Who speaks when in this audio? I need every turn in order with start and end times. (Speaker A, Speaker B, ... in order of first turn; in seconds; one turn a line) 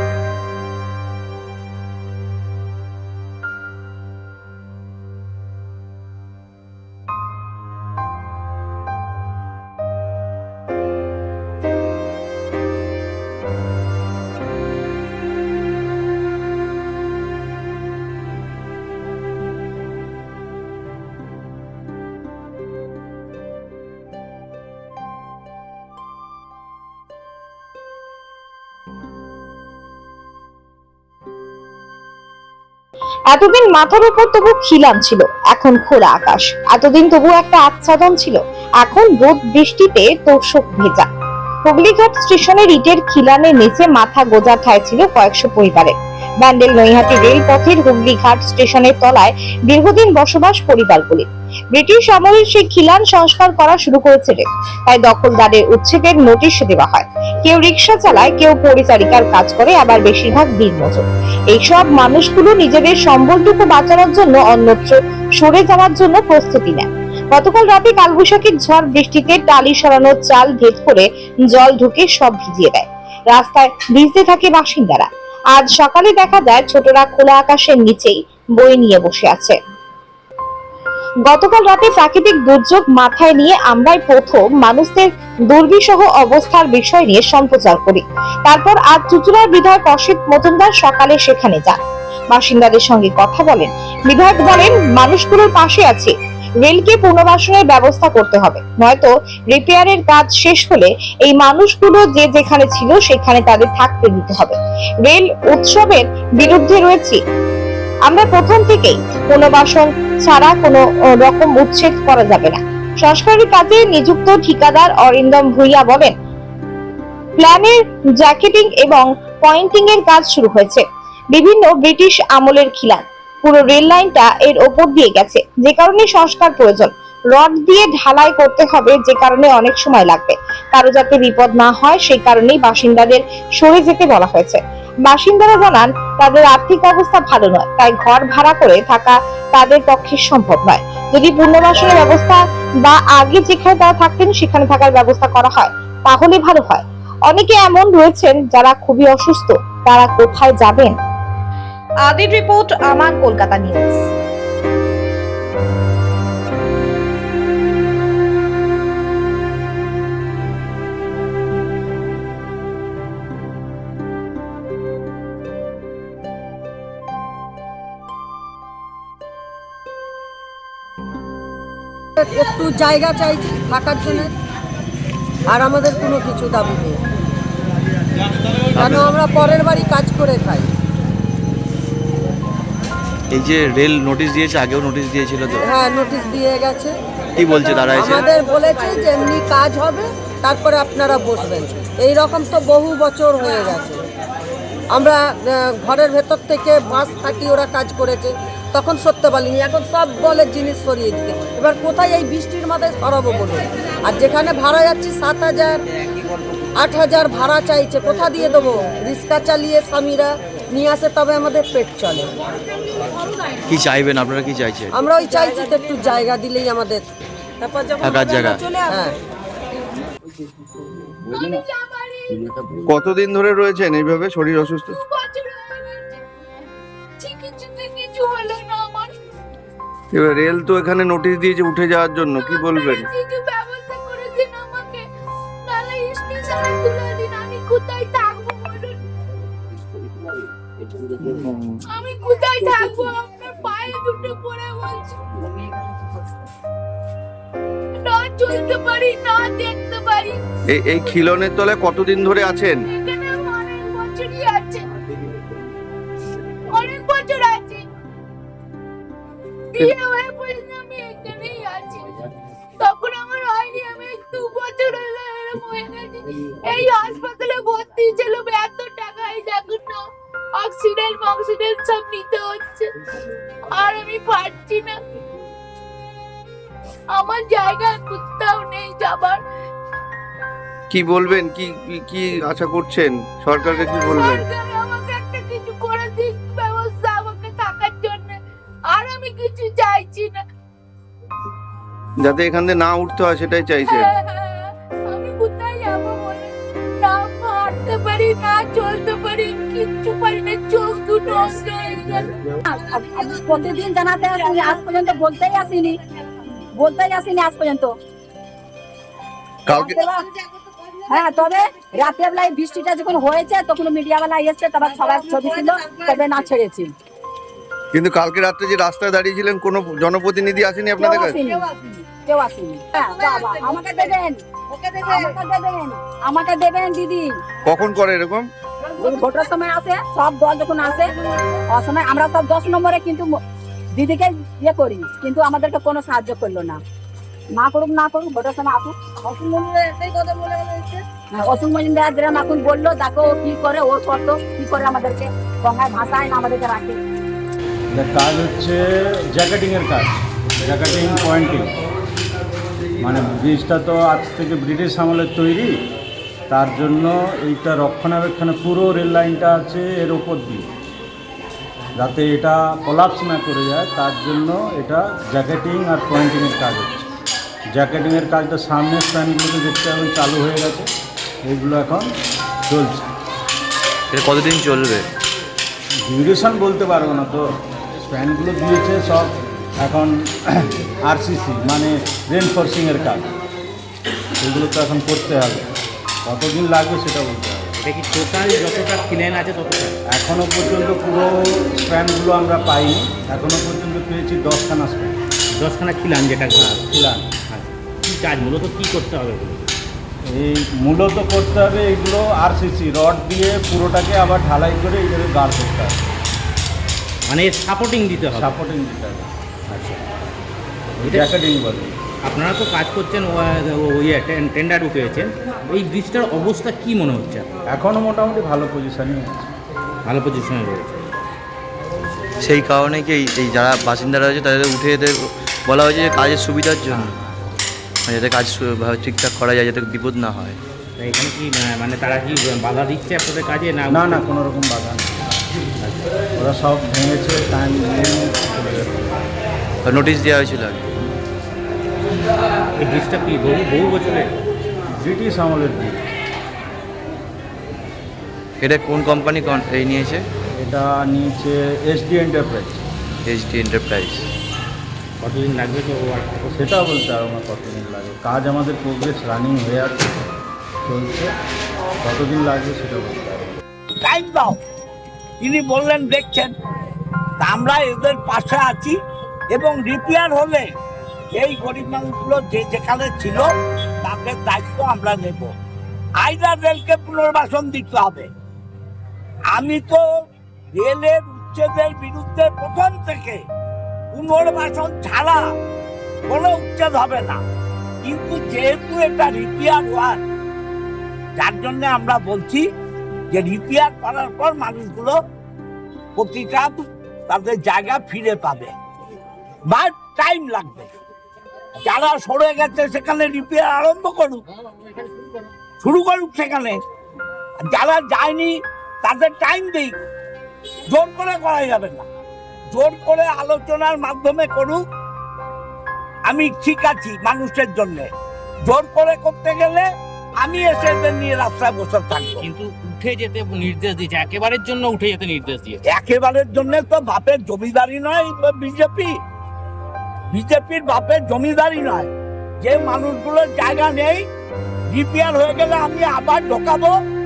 Speaker A: 33.3-41.1
Speaker A: 41.6-79.6
Speaker A: 81.2-91.8
Speaker A: 92.3-107.2
Speaker A: 108.1-116.2
Speaker A: 117.4-150.9
Speaker A: 152.1-154.0
Speaker B: 172.2-174.3
Speaker B: 175.5-177.0
Speaker C: 178.8-179.1
Speaker B: 178.8-180.7
Speaker C: 183.3-185.7
Speaker B: 185.6-187.0
Speaker C: 187.4-188.2
Speaker B: 187.9-194.0
Speaker B: 194.9-205.8
Speaker B: 206.8-212.3
Speaker C: 213.7-214.9
Speaker B: 214.9-217.1
Speaker C: 218.0-218.8
Speaker B: 218.8-219.2
Speaker D: 221.3-222.5
Speaker E: 222.9-224.9
Speaker D: 224.9-226.2
Speaker D: 227.2-229.1
Speaker E: 230.1-233.1
Speaker D: 232.3-235.0
Speaker D: 235.7-239.0
Speaker E: 241.3-241.7
Speaker D: 241.9-245.2
Speaker D: 248.1-250.4
Speaker E: 250.7-252.8
Speaker D: 252.8-254.8
Speaker D: 256.7-257.9
Speaker D: 259.7-262.1
Speaker D: 262.8-270.0
Speaker D: 270.6-272.9
Speaker D: 273.8-275.0
Speaker D: 277.1-279.4
Speaker E: 280.9-284.4
Speaker D: 283.6-288.4
Speaker D: 288.9-290.4
Speaker E: 292.2-294.1
Speaker D: 293.9-302.3
Speaker F: 302.7-306.0
Speaker F: 306.8-307.9
Speaker E: 309.7-310.0
Speaker F: 309.7-310.3
Speaker F: 311.1-316.9
Speaker E: 317.9-321.4
Speaker F: 321.0-324.4
Speaker F: 324.9-327.3
Speaker E: 327.7-328.5
Speaker F: 329.0-331.1
Speaker F: 331.7-333.4
Speaker F: 333.9-336.8
Speaker F: 337.6-340.8
Speaker F: 341.4-347.0
Speaker G: 347.9-351.7
Speaker G: 353.0-355.7
Speaker G: 356.5-360.7
Speaker G: 362.0-367.1
Speaker G: 367.7-370.9
Speaker G: 371.4-372.1
Speaker G: 372.7-373.1
Speaker C: 374.1-375.1
Speaker G: 376.1-377.4
Speaker G: 378.0-383.3
Speaker G: 384.4-385.7
Speaker G: 386.2-387.8
Speaker H: 387.8-390.0
Speaker G: 390.1-395.2
Speaker H: 395.6-399.6
Speaker G: 396.6-397.3
Speaker G: 400.3-406.1
Speaker H: 407.3-408.5
Speaker G: 408.4-409.3
Speaker H: 409.7-410.0
Speaker H: 411.0-411.4
Speaker G: 411.0-411.9
Speaker H: 412.2-417.5
Speaker G: 417.7-419.5
Speaker H: 420.1-421.1
Speaker C: 422.4-427.1
Speaker H: 426.9-427.2
Speaker C: 428.1-430.6
Speaker H: 431.0-434.3
Speaker G: 433.9-435.1
Speaker H: 435.8-436.1
Speaker G: 436.4-439.2
Speaker C: 439.8-440.9
Speaker H: 442.8-444.4
Speaker G: 445.0-446.0
Speaker C: 448.6-450.2
Speaker G: 450.6-452.9
Speaker C: 453.2-454.3
Speaker H: 455.2-456.5
Speaker G: 456.5-460.3
Speaker G: 460.9-461.3
Speaker G: 462.0-463.6
Speaker I: 464.0-464.6
Speaker I: 465.4-466.5
Speaker I: 467.4-469.0
Speaker I: 469.5-470.7
Speaker I: 471.4-473.5
Speaker I: 474.0-475.5
Speaker I: 476.2-478.3
Speaker I: 479.5-480.0
Speaker I: 480.8-483.4
Speaker I: 484.1-485.4
Speaker I: 486.3-487.4
Speaker I: 488.0-490.2
Speaker I: 491.4-492.6
Speaker I: 493.3-495.2
Speaker I: 496.2-498.7
Speaker I: 499.7-500.9
Speaker I: 501.8-504.4
Speaker I: 505.8-506.8
Speaker I: 507.6-510.0
Speaker I: 510.9-512.1
Speaker I: 512.7-514.8
Speaker I: 516.3-518.1
Speaker I: 518.6-519.9
Speaker I: 520.4-522.5
Speaker H: 522.4-525.8
Speaker I: 525.9-529.1
Speaker I: 530.3-534.2
Speaker I: 534.9-537.0